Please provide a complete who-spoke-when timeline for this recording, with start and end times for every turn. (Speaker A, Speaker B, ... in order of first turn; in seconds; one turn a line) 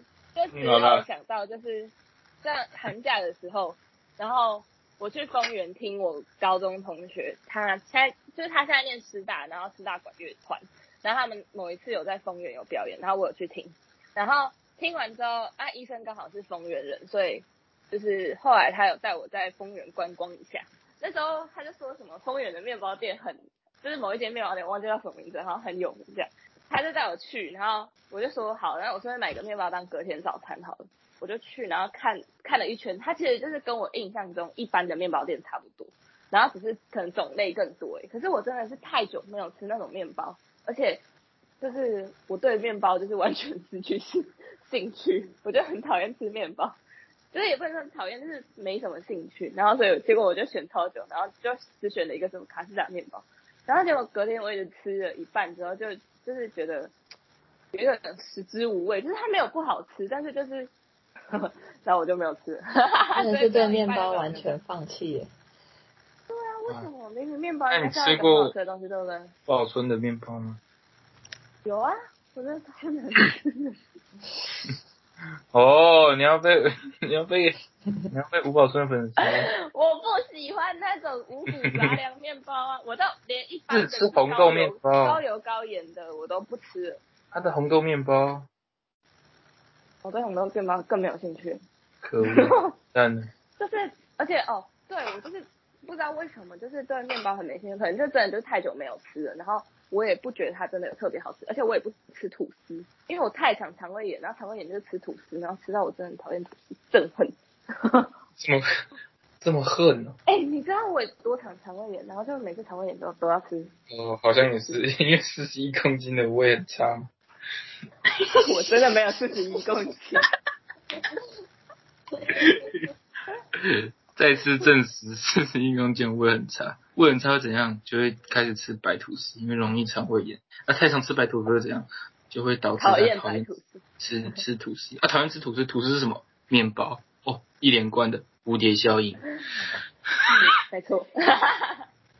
Speaker A: 0.3-41.0
Speaker B: 0.5-1.1
Speaker A: 41.6-46.8
Speaker A: 47.3-56.9
Speaker A: 57.7-60.7
Speaker A: 61.3-64.5
Speaker C: 63.2-65.3
Speaker A: 66.3-69.3
Speaker B: 67.7-68.5
Speaker B: 69.5-70.6
Speaker A: 71.7-73.8
Speaker B: 75.5-77.5
Speaker B: 78.1-79.5
Speaker A: 79.2-87.0
Speaker B: 81.7-82.0
Speaker B: 83.7-85.2
Speaker B: 87.3-88.5
Speaker A: 90.0-91.6
Speaker B: 92.0-93.3
Speaker A: 92.2-92.7
Speaker A: 93.6-108.1
Speaker B: 108.4-108.6
Speaker B: 109.4-110.2
Speaker A: 110.3-113.7
Speaker B: 113.9-117.1
Speaker A: 118.3-120.3
Speaker B: 122.3-122.9
Speaker B: 123.5-133.5
Speaker A: 132.8-133.8
Speaker B: 134.0-139.2
Speaker A: 140.6-141.8